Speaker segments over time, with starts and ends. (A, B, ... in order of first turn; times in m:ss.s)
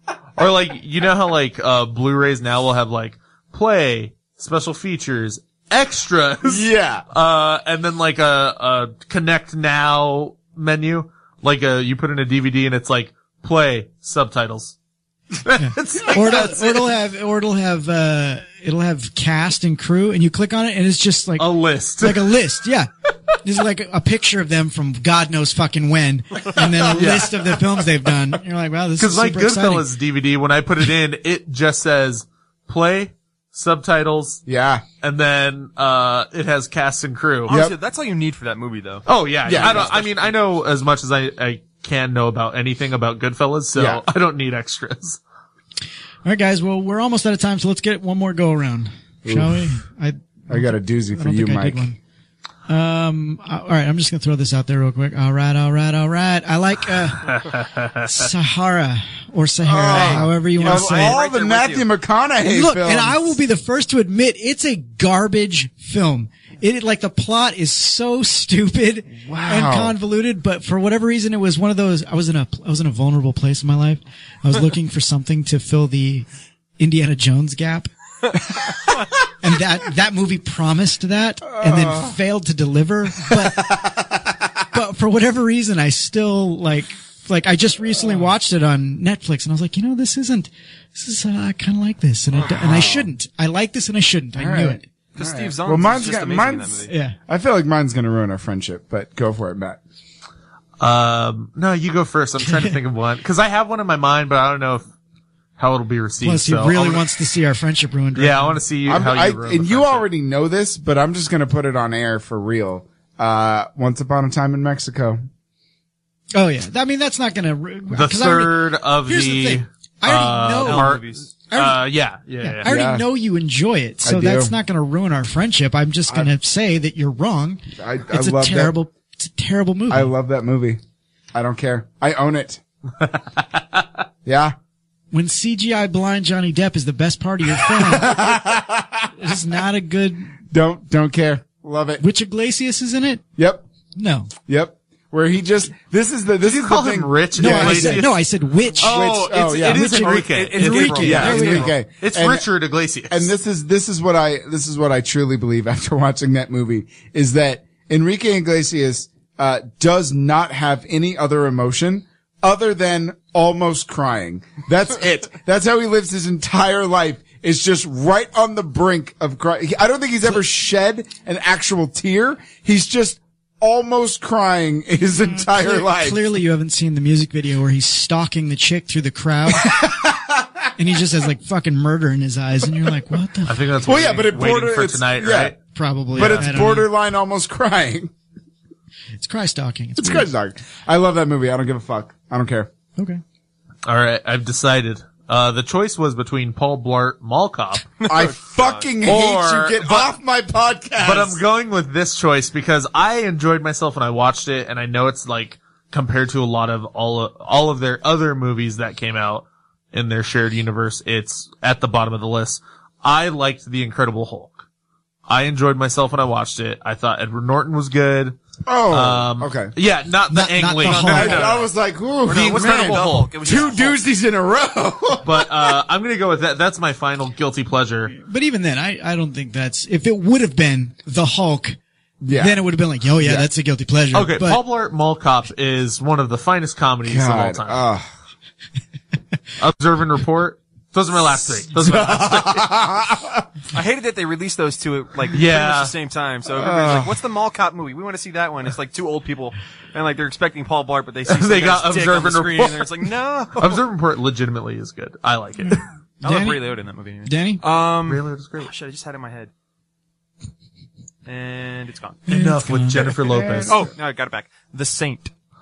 0:00.4-0:14.8 A
0:06.4-0:07.0 B
0:15.4-0:16.9 A
0:15.6-0:21.5 C
0:21.4-0:22.4 A
0:22.0-0:22.9 C
0:23.4-0:29.9 C
0:26.9-0:27.5 A
0:29.0-0:34.4 A
0:34.5-0:34.8 B
0:35.0-0:37.5 A
0:37.5-0:40.3 D
0:37.5-0:37.8 B
0:39.1-0:45.2 A
0:39.4-0:40.0 B
0:43.8-0:44.0 B
0:46.2-0:52.0 C
0:49.2-0:49.7 B
0:50.5-0:51.9 B
0:52.7-0:57.5 C
0:58.0-1:01.2 C
0:59.6-1:03.4 B
0:59.9-1:01.9 D
1:02.5-1:16.3 C
1:09.2-1:10.0 B
1:16.8-1:17.9 C
1:19.4-1:23.9 C
1:21.5-1:22.2 B
1:23.3-1:24.2 B
1:24.7-1:34.9 C
1:32.3-1:32.9 D
1:32.6-1:33.1 B
1:34.4-1:39.8 B
1:35.2-1:36.9 D
1:36.9-1:37.2 C
1:40.8-1:44.9 A
1:42.4-1:42.7 C
1:45.6-1:47.0 A
1:46.2-1:48.6 C
1:48.2-1:50.0 A
1:48.9-1:55.2 B
1:56.3-2:01.0 C
1:57.9-2:02.7 A
2:00.6-2:01.3 D
2:01.5-2:01.8 C
2:02.4-2:10.1 C
2:02.6-2:03.0 B
2:04.0-2:04.5 B
2:07.8-2:08.8 B
2:09.9-2:10.8 B
2:11.3-2:12.6 B
2:14.2-2:14.6 B
2:15.1-2:18.2 C
2:17.8-2:19.1 B
2:19.2-2:20.3 C
2:20.5-2:22.0 B
2:22.0-2:23.2 C
2:23.4-2:23.6 B
2:24.0-2:24.3 C
2:24.5-2:28.2 B
2:26.4-2:28.2 A
2:27.4-2:31.7 C
2:28.8-2:30.1 B
2:28.8-2:33.3 A
2:30.3-2:31.7 D
2:31.0-2:32.5 B
2:33.1-2:56.2 B
2:55.2-2:59.8 C
2:59.6-3:00.5 B
3:00.8-3:03.6 C
3:03.5-3:05.6 A
3:03.8-3:05.5 B
3:05.8-3:06.9 C
3:06.1-3:06.6 A
3:06.1-3:08.1 B
3:09.2-3:10.3 C
3:10.0-3:12.7 B
3:13.9-3:17.9 A
3:18.0-3:18.9 D
3:18.1-3:21.4 B
3:19.0-3:20.1 A
3:21.0-3:34.6 A
3:35.3-3:38.4 A
3:38.7-3:39.7 B
3:38.9-3:41.6 A
3:40.3-3:41.5 C
3:40.8-3:41.6 D
3:41.1-3:45.8 B
3:42.3-3:44.0 D
3:42.3-3:43.7 A
3:45.2-3:48.1 A
3:48.1-3:51.8 C
3:52.2-3:52.7 B
3:52.4-3:54.6 C
3:53.2-3:53.5 B
3:54.1-3:57.8 A
3:57.0-3:58.1 B
3:59.6-4:02.7 A
4:01.7-4:03.5 B
4:03.7-4:13.8 D
4:05.3-4:05.9 A
4:06.5-4:07.2 B
4:11.3-4:15.8 A
4:16.2-4:19.5 D
4:16.2-4:16.6 C
4:17.2-4:17.6 C
4:18.1-4:18.7 A
4:21.3-4:22.2 D
4:22.3-4:23.1 C
4:22.3-4:23.8 A
4:23.2-4:23.9 B
4:23.7-4:25.3 D